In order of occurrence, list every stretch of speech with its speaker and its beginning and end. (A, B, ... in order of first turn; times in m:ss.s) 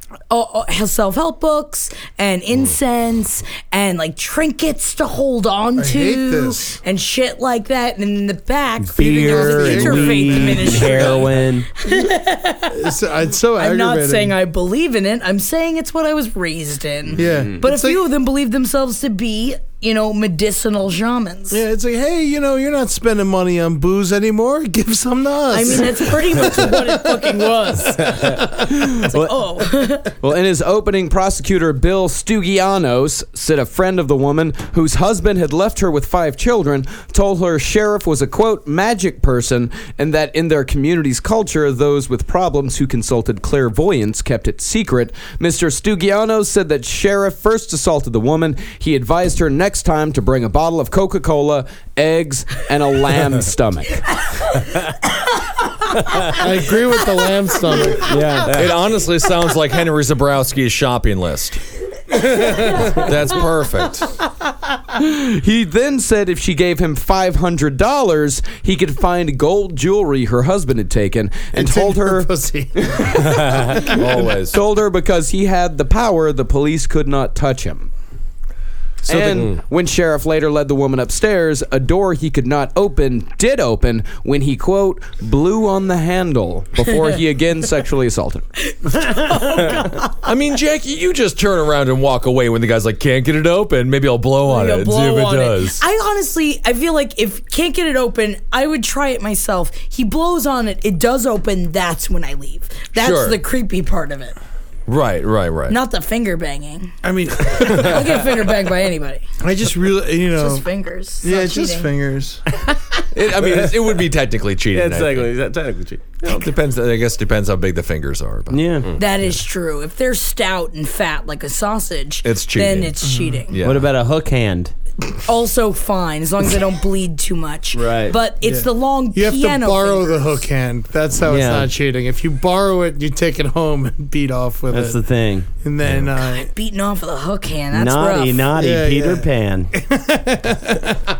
0:00.3-0:12.9 A
0:05.8-0:06.8 B
0:08.8-0:11.7 C
0:09.1-0:11.2 B
0:12.7-0:14.4 B
0:13.6-0:21.6 A
0:17.2-0:18.1 B
0:17.2-0:17.6 D
0:21.5-0:27.7 B
0:25.5-0:30.1 A
0:28.7-0:29.2 D
0:30.2-0:54.0 D
0:56.3-0:58.1 B
0:58.1-0:58.5 C
0:58.4-0:58.7 E
0:58.5-1:01.6 F
1:02.5-1:04.1 F
1:05.0-1:13.2 D
1:11.5-1:13.1 B
1:13.3-1:13.9 E
1:13.8-1:14.6 F
1:14.0-1:17.9 D
1:19.0-1:28.4 D
1:19.1-1:19.4 F
1:19.3-1:19.6 E
1:28.6-1:30.1 A
1:30.2-1:35.8 F
1:34.5-1:44.4 A
1:43.0-1:43.4 F
1:44.9-1:45.8 F
1:45.7-1:49.2 A
1:47.0-1:48.4 B
1:49.4-1:50.6 B
1:50.3-1:51.9 A
1:51.2-1:52.4 B
1:53.1-1:55.3 F
1:54.7-1:56.2 E
1:56.2-1:58.6 F
1:58.5-1:58.9 C
1:59.0-2:03.6 A
2:02.2-2:02.9 F
2:03.0-2:03.4 B
2:03.5-2:03.9 F
2:03.6-2:04.7 C
2:05.2-2:10.4 A
2:07.7-2:08.2 C
2:08.4-2:15.0 B
2:11.2-2:11.7 C
2:14.7-2:15.5 C
2:15.6-2:16.5 B
2:16.2-2:18.5 A
2:17.7-2:19.7 C
2:18.6-2:21.1 B